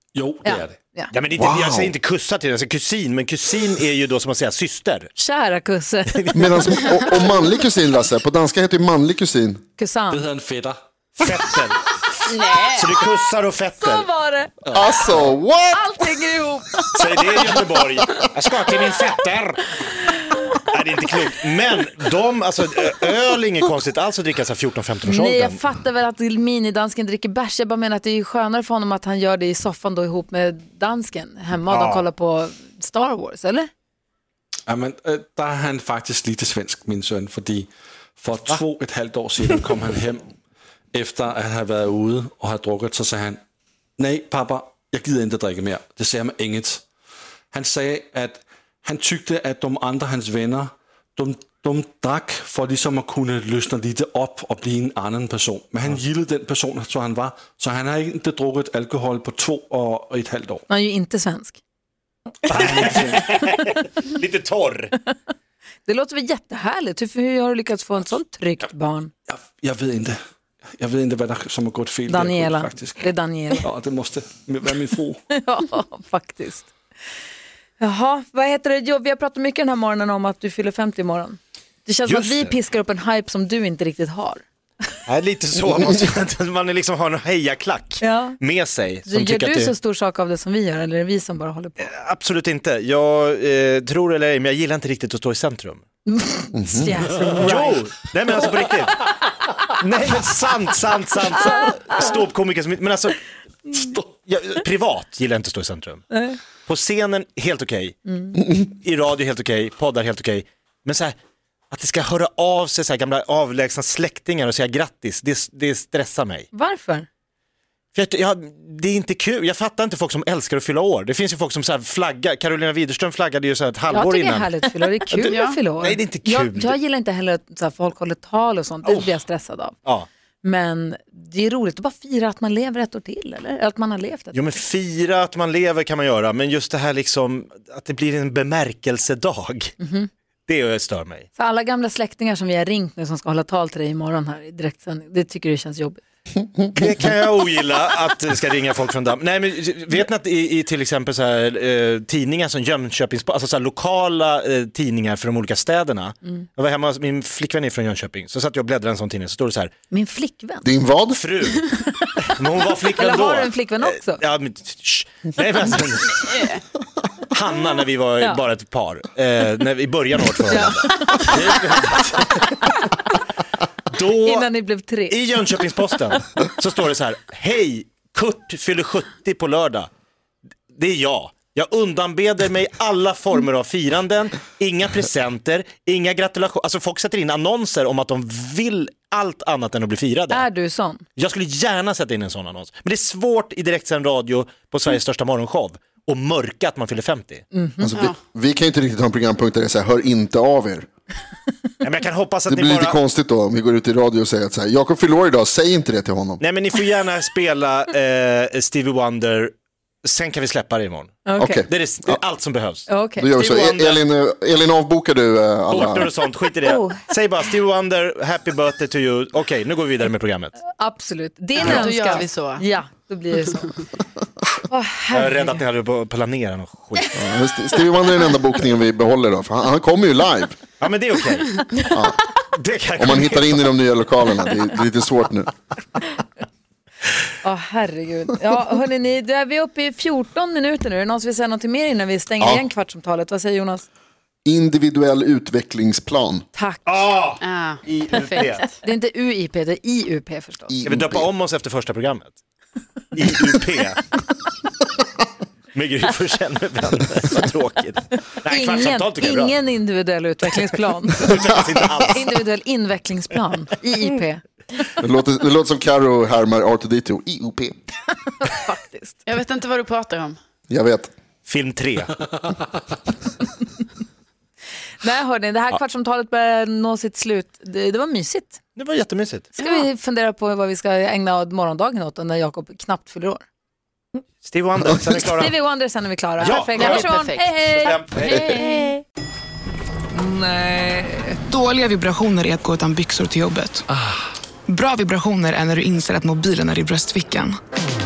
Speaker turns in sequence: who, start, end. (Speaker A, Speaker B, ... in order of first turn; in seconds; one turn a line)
Speaker A: 0.1-0.8
Speaker B: 0.4-1.1
Speaker C: 1.1-5.1
Speaker D: 1.4-1.9
Speaker B: 5.2-6.3
Speaker C: 6.1-7.2
Speaker D: 6.3-9.6
Speaker B: 9.8-10.2
Speaker A: 10.1-10.8
Speaker C: 11.2-14.1
Speaker E: 12.2-13.0
Speaker B: 13.8-14.5
Speaker A: 14.6-15.3
Speaker D: 14.7-15.9
Speaker B: 15.7-17.1
Speaker C: 16.9-19.7
Speaker C: 20.7-25.6
Speaker B: 25.0-33.7
Speaker C: 31.7-32.0
Speaker A: 34.7-40.3
Speaker A: 40.9-43.4
Speaker A: 44.0-46.9
Speaker A: 47.5-60.6
Speaker B: 60.7-61.6
Speaker A: 62.5-63.3
Speaker C: 62.5-64.9
Speaker B: 65.8-69.1
Speaker A: 69.3-70.2
Speaker A: 70.8-75.2
Speaker B: 72.1-73.7
Speaker B: 75.3-76.7
Speaker B: 77.8-84.4
Speaker C: 82.0-82.5
Speaker C: 85.1-89.7
Speaker B: 88.0-88.4
Speaker B: 89.0-91.9
Speaker C: 91.8-95.8
Speaker B: 96.1-97.7
Speaker D: 96.5-97.0
Speaker A: 97.2-97.6
Speaker C: 97.3-99.1
Speaker C: 99.8-103.2
Speaker C: 104.2-106.0
Speaker B: 106.1-106.4
Speaker C: 106.7-111.2
Speaker B: 108.1-108.4
Speaker C: 111.7-116.5
Speaker B: 116.5-117.1
Speaker C: 117.9-124.5
Speaker B: 123.9-129.8
Speaker C: 125.1-126.7
Speaker E: 125.3-125.6
Speaker B: 130.4-134.5
Speaker C: 134.3-139.7
Speaker B: 139.8-140.1
Speaker C: 140.5-141.3
Speaker B: 141.3-146.0
Speaker C: 146.7-159.7
Speaker B: 159.9-160.7
Speaker D: 160.6-161.2
Speaker C: 161.1-161.7
Speaker C: 162.3-166.5
Speaker B: 162.9-164.2
Speaker E: 166.2-166.6
Speaker C: 167.3-172.7
Speaker B: 170.5-171.9
Speaker C: 173.9-174.5
Speaker B: 174.2-175.2
Speaker C: 175.1-179.9
Speaker C: 180.7-190.4
Speaker B: 190.3-191.0
Speaker C: 191.2-197.4
Speaker B: 197.5-197.9
Speaker D: 197.8-200.9
Speaker C: 201.8-203.0
Speaker D: 202.5-206.4
Speaker C: 206.4-212.9
Speaker B: 211.2-211.6
Speaker D: 211.4-212.2
Speaker B: 212.9-213.6
Speaker D: 213.2-216.1
Speaker C: 213.4-214.0
Speaker C: 215.7-220.6
Speaker B: 220.8-223.7
Speaker E: 221.6-222.6
Speaker B: 224.7-225.6
Speaker C: 225.1-227.2
Speaker D: 227.1-230.6
Speaker C: 230.8-233.6
Speaker D: 231.9-232.2
Speaker D: 233.0-235.5
Speaker B: 237.4-243.8
Speaker D: 242.4-242.7
Speaker D: 244.4-246.4
Speaker B: 246.5-246.8
Speaker C: 246.8-248.7
Speaker E: 247.4-248.7
Speaker B: 248.6-250.7
Speaker D: 250.7-251.3
Speaker C: 250.8-252.3
Speaker C: 253.1-254.0
Speaker C: 255.7-259.6
Speaker B: 258.4-264.4
Speaker C: 261.2-262.4
Speaker D: 265.0-267.8
Speaker B: 268.4-269.2
Speaker E: 269.2-270.4
Speaker D: 270.7-271.1
Speaker C: 271.4-272.1
Speaker B: 275.0-278.6
Speaker C: 278.8-279.5
Speaker B: 279.6-283.4
Speaker E: 279.6-279.9
Speaker C: 284.4-285.6
Speaker B: 285.1-288.0
Speaker C: 286.4-287.1
Speaker E: 286.4-288.8
Speaker C: 287.8-288.5
Speaker B: 290.2-290.7
Speaker F: 291.4-293.9
Speaker F: 294.7-297.6